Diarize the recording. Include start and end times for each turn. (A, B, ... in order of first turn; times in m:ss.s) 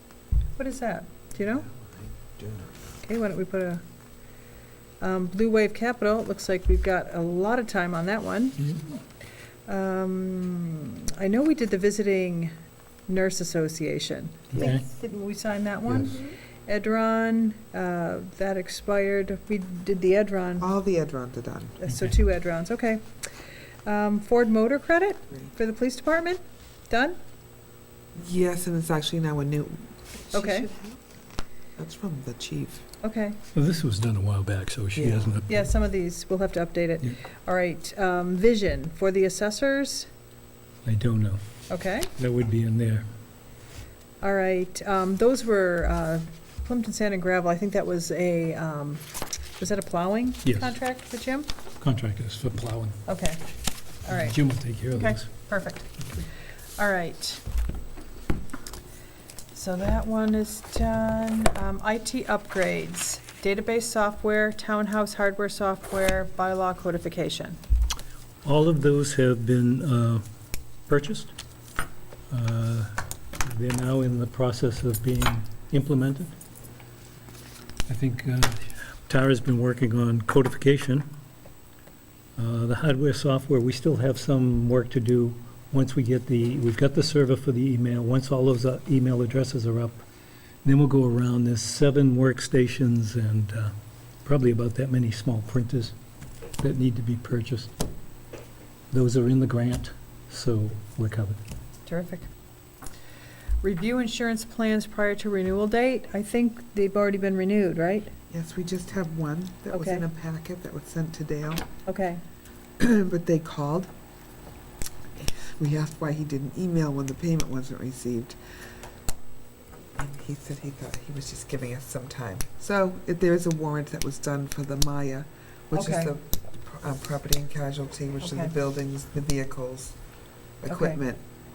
0:00.6-0:01.7 A
0:01.4-0:03.0 B
0:03.0-0:03.8 A
0:05.0-0:09.0 A
0:09.7-0:12.5 A
0:13.1-0:20.7 A
0:14.5-0:14.8 C
0:20.6-0:21.8 B
0:21.8-0:23.0 A
0:21.9-0:22.1 C
0:23.8-0:27.2 A
0:28.2-0:31.0 B
0:30.3-0:30.7 A
0:31.8-0:32.9 B
0:33.0-0:33.4 A
0:33.5-0:35.7 C
0:35.0-0:35.4 B
0:35.5-0:40.1 A
0:40.8-0:41.4 C
0:41.7-0:42.1 A
0:42.2-0:43.1 C
0:44.2-0:49.0 A
0:49.6-0:51.5 A
0:50.4-0:50.7 C
0:51.8-0:53.0 C
0:53.1-0:53.4 A
0:54.1-0:54.3 A
0:54.1-0:55.3 C
0:54.9-0:55.9 A
0:56.8-0:57.4 A
0:59.5-1:07.6 A
1:08.4-1:10.2 C
1:10.9-1:11.3 C
1:12.3-1:12.9 C
1:13.4-1:16.4 C
1:17.9-1:21.1 C
1:22.4-1:30.0 C
1:30.6-1:33.7 C
1:34.2-1:35.9 C
1:36.6-1:37.7 C
1:38.9-1:41.4 C
1:41.9-1:42.3 A
1:43.6-1:48.1 A
1:48.3-1:51.7 B
1:49.7-1:50.0 A
1:51.8-1:52.2 A
1:52.8-1:53.9 B
1:55.2-1:58.4 B
2:00.0-2:10.0 B
2:05.7-2:06.1 A
2:08.2-2:08.5 A
2:10.6-2:11.2 B
2:10.7-2:11.0 A